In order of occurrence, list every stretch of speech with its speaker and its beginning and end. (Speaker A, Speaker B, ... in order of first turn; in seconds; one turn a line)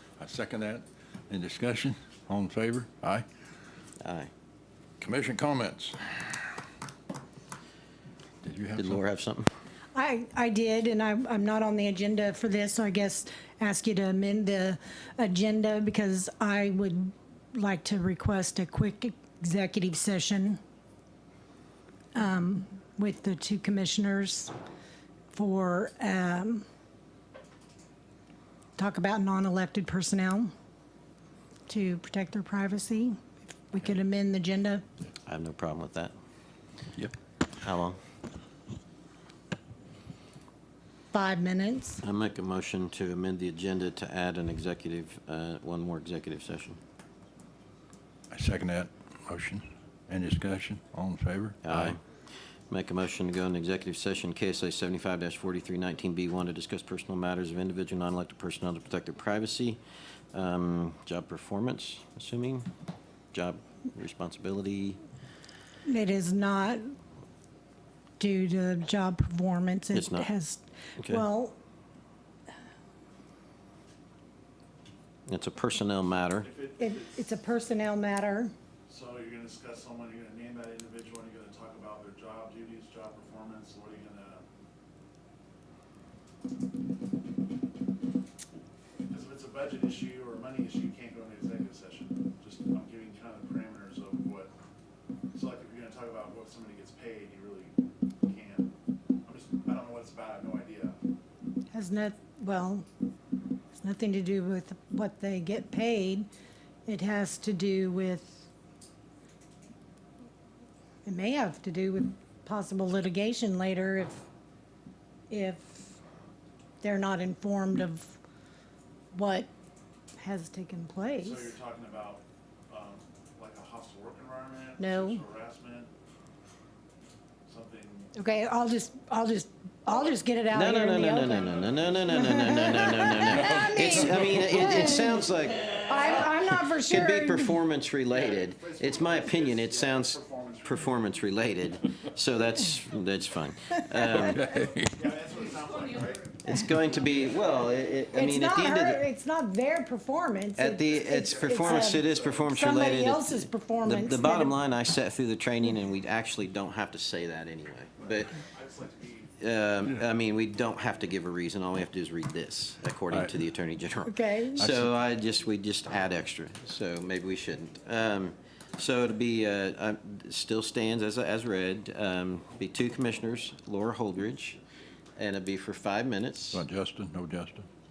Speaker A: 0.2-3.2
Speaker B: 4.0-4.3
Speaker A: 5.0-6.5
Speaker A: 8.4-9.0
Speaker B: 8.8-9.5
Speaker C: 9.9-20.6
Speaker C: 22.1-24.5
Speaker C: 25.3-26.6
Speaker C: 28.8-30.5
Speaker C: 31.7-34.8
Speaker B: 35.3-36.1
Speaker B: 37.6-38.0
Speaker C: 41.1-42.0
Speaker B: 42.0-46.8
Speaker A: 48.3-52.0
Speaker B: 51.6-52.0
Speaker B: 52.7-59.8
Speaker B: 60.3-62.7
Speaker B: 63.3-65.0
Speaker C: 65.8-66.9
Speaker C: 68.2-71.6
Speaker B: 69.9-70.3
Speaker B: 71.0-71.2
Speaker B: 75.3-76.5
Speaker D: 76.4-77.3
Speaker C: 76.8-78.5
Speaker D: 78.9-84.4
Speaker D: 89.1-94.5
Speaker D: 95.3-98.7
Speaker D: 99.2-101.0
Speaker C: 101.7-102.8
Speaker C: 103.8-106.3
Speaker C: 106.8-108.5
Speaker C: 111.0-114.2
Speaker C: 115.3-115.9
Speaker C: 116.8-118.2
Speaker C: 119.1-119.5
Speaker C: 120.2-121.5
Speaker D: 121.2-125.9
Speaker C: 124.8-125.2
Speaker D: 127.5-128.1
Speaker C: 128.1-131.5
Speaker B: 130.5-144.5
Speaker D: 131.3-133.5
Speaker C: 132.1-135.3
Speaker C: 135.8-137.6
Speaker D: 138.1-141.3
Speaker A: 144.1-144.9
Speaker D: 144.8-146.3
Speaker B: 146.4-149.0
Speaker C: 148.1-154.5
Speaker B: 150.6-158.4
Speaker D: 150.9-152.6
Speaker D: 158.3-159.3
Speaker B: 159.4-174.6
Speaker C: 164.1-164.6
Speaker A: 164.6-164.9
Speaker B: 175.2-176.6
Speaker A: 176.5-177.7